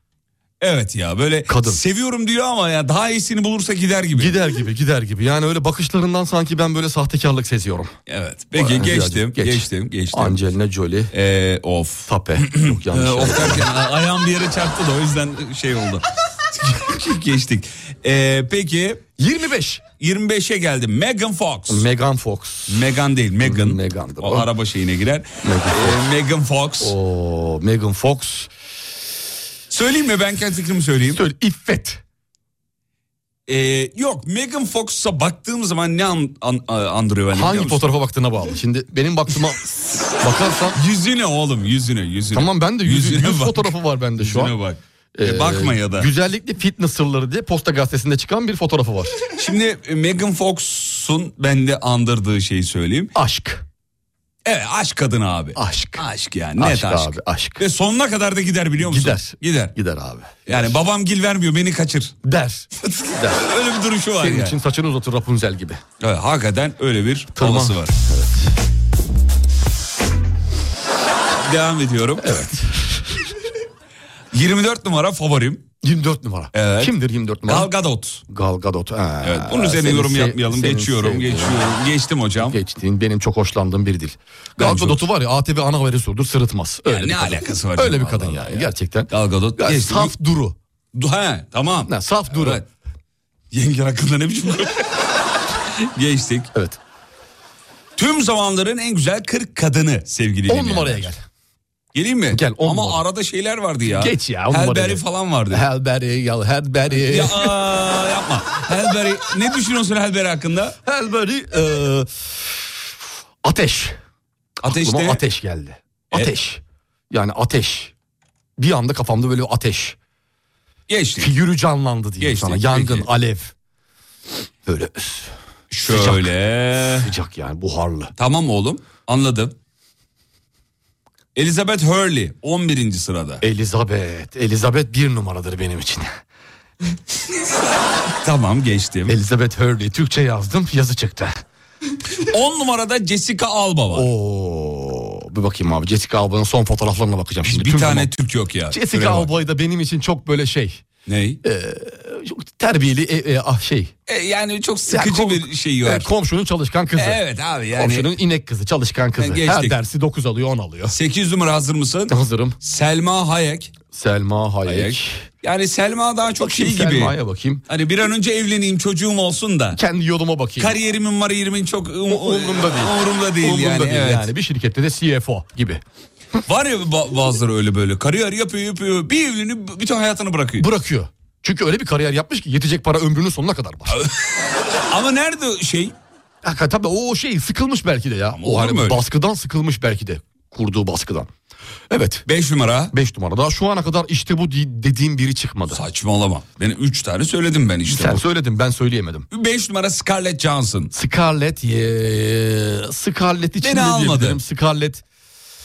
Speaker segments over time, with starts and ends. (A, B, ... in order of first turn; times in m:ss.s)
0:00.6-0:04.4 A
0:01.5-0:01.8 B
0:04.2-0:07.9 B
0:08.1-0:10.4 A
0:08.6-0:11.1 B
0:11.1-0:19.0 A
0:12.1-0:13.7 B
0:19.2-0:19.8 B
0:20.0-0:21.9 A
0:21.7-0:22.9 B
0:22.7-0:27.0 A
0:23.4-0:24.5 B
0:25.4-0:26.0 B
0:26.8-0:28.5 B
0:29.7-0:31.2 A
0:31.1-0:32.0 B
0:33.5-0:37.9 A
0:37.3-0:40.8 B
0:40.7-0:46.1 A
0:42.3-0:44.5 B
0:45.2-0:49.3 B
0:49.3-0:53.1 A
0:53.2-0:53.6 B
0:54.4-0:59.7 A
0:55.6-0:56.0 B
0:56.6-0:57.6 B
0:58.8-1:00.8 B
1:00.5-1:02.1 A
1:02.2-1:03.4 B
1:02.8-1:04.6 A
1:04.2-1:05.8 B
1:06.0-1:07.9 A
1:07.4-1:08.5 B
1:11.3-1:12.5 A
1:12.2-1:13.3 B
1:14.3-1:15.7 A
1:15.8-1:17.7 B
1:16.5-1:18.2 A
1:18.3-1:21.8 B
1:19.2-1:22.6 A
1:22.4-1:30.6 B
1:24.6-1:25.1 A
1:26.8-1:30.1 A
1:31.0-1:32.7 A
1:31.9-1:32.6 B
1:33.5-1:35.1 A
1:35.7-1:36.5 A
1:36.5-1:36.8 B
1:38.0-1:41.1 A
1:40.5-1:41.2 B
1:41.9-1:45.6 A
1:42.3-1:43.0 B
1:43.9-1:47.6 B
1:47.1-1:50.8 A
1:50.9-1:52.6 B
1:53.4-1:54.0 B
1:54.6-1:55.2 A
1:54.6-1:57.9 B
1:58.6-2:00.0 B
2:00.9-2:01.3 A
2:01.2-2:03.5 B
2:02.2-2:03.1 A
2:04.7-2:05.3 B
2:05.7-2:07.1 A
2:05.8-2:06.3 B
2:06.8-2:08.1 B
2:08.2-2:09.6 A
2:11.4-2:13.4 A
2:13.4-2:16.1 B
2:18.2-2:19.2 A
2:19.1-2:21.4 B
2:22.2-2:24.1 A
2:23.9-2:28.1 B
2:27.4-2:29.3 A
2:28.7-2:30.8 B
2:31.1-2:31.4 A
2:31.4-2:33.9 B
2:34.1-2:36.1 A
2:34.9-2:37.2 B
2:37.0-2:38.1 A
2:37.8-2:40.9 B
2:39.2-2:39.8 A
2:40.9-2:43.7 A
2:42.1-2:42.6 B
2:43.9-2:45.2 B
2:44.6-2:49.8 A
2:46.4-2:47.6 B
2:49.7-2:50.8 B
2:50.6-2:54.3 A
2:52.1-2:55.8 B
2:56.5-3:00.7 A
3:00.6-3:04.0 B
3:03.9-3:04.2 A
3:04.9-3:06.0 A
3:06.4-3:11.3 B
3:08.3-3:09.0 A
3:11.9-3:12.2 B
3:12.3-3:12.9 A
3:12.9-3:15.8 B
3:15.7-3:18.3 A
3:17.9-3:19.3 B
3:19.3-3:20.9 A
3:20.9-3:25.0 B
3:23.6-3:24.4 A